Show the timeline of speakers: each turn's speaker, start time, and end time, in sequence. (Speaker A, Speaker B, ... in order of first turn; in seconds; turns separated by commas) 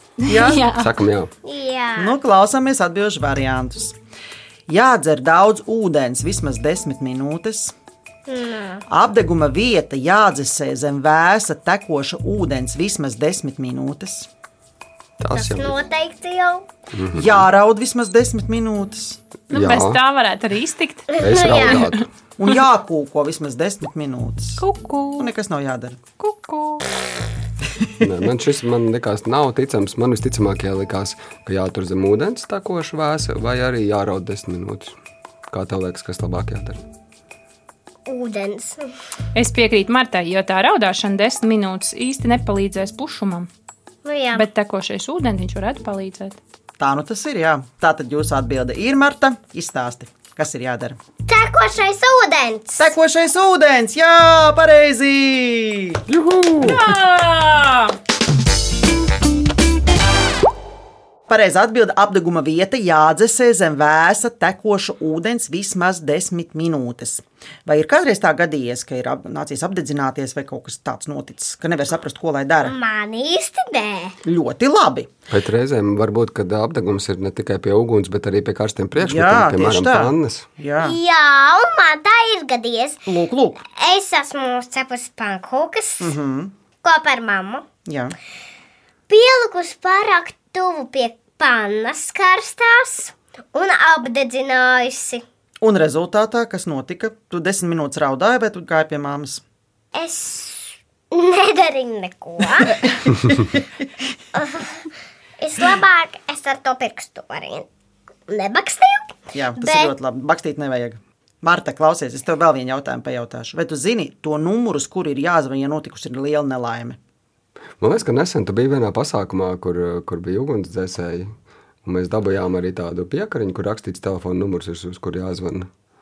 Speaker A: 0.2-0.9, Speaker B: 0.2-0.7, Speaker C: 0.8-1.3, Speaker D: 1.4-2.2, Speaker B: 2.0-4.0, Speaker B: 4.7-7.7, Speaker D: 8.3-8.8, Speaker B: 8.9-14.3, Speaker C: 15.2-15.8, Speaker D: 15.4-16.7, Speaker C: 16.9-17.5, Speaker B: 17.1-19.2, Speaker C: 19.5-20.0, Speaker A: 19.5-22.1, Speaker D: 21.1-21.8, Speaker C: 21.2-22.1, Speaker B: 22.4-24.6, Speaker A: 24.6-25.3, Speaker B: 25.2-26.0, Speaker A: 26.2-26.8, Speaker C: 28.0-34.9, Speaker C: 35.5-36.8, Speaker D: 38.1-38.9, Speaker A: 39.4-43.5, Speaker D: 44.0-44.4, Speaker A: 44.3-46.4, Speaker B: 46.8-51.0, Speaker D: 51.3-52.9, Speaker B: 52.8-56.0, Speaker C: 56.1-56.8, Speaker A: 56.6-57.9, Speaker B: 61.3-72.8, Speaker D: 72.6-74.2, Speaker B: 74.2-75.1, Speaker C: 75.3-80.5, Speaker B: 79.0-81.0, Speaker D: 80.8-83.1, Speaker B: 83.1-83.7, Speaker D: 83.8-86.2, Speaker B: 86.0-86.5, Speaker D: 86.8-87.7, Speaker B: 87.9-88.1, Speaker D: 89.1-95.2, Speaker B: 95.6-99.4, Speaker D: 99.9-102.9, Speaker D: 104.3-104.9, Speaker D: 105.4-107.7, Speaker D: 108.3-109.9, Speaker B: 109.3-117.0, Speaker C: 117.8-121.3, Speaker C: 121.8-125.7